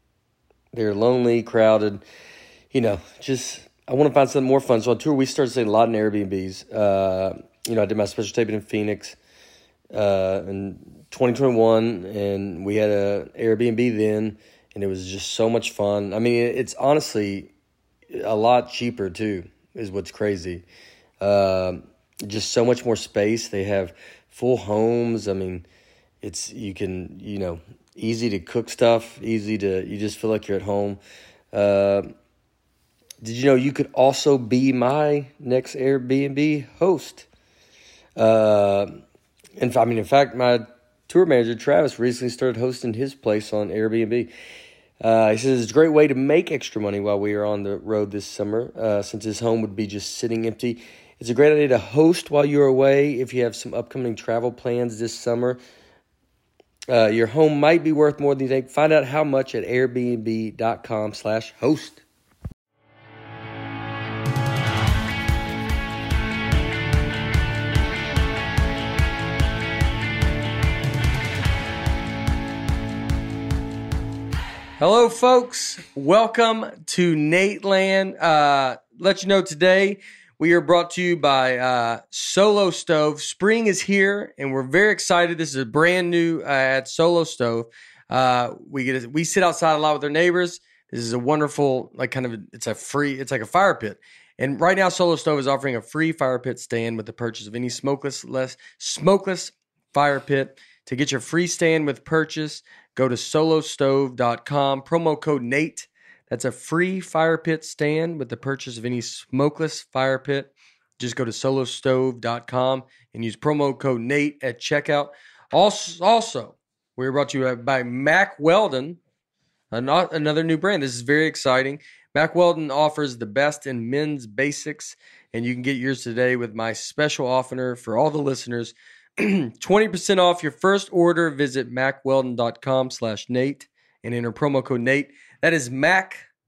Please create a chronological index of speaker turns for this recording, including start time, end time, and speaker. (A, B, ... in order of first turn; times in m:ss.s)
0:00.7-0:02.0 A
0:02.7-0:09.2 A
0:09.9-0:17.5 A
0:18.1-0:20.7 A
0:21.2-0:25.7 A
0:26.2-0:31.0 A
0:31.5-0:32.1 A
0:33.2-0:37.3 A
0:38.2-0:39.0 A
0:39.6-0:44.3 A
0:45.0-0:55.6 A
0:56.9-1:02.0 A
1:14.8-1:59.0 A
1:59.7-2:16.2 A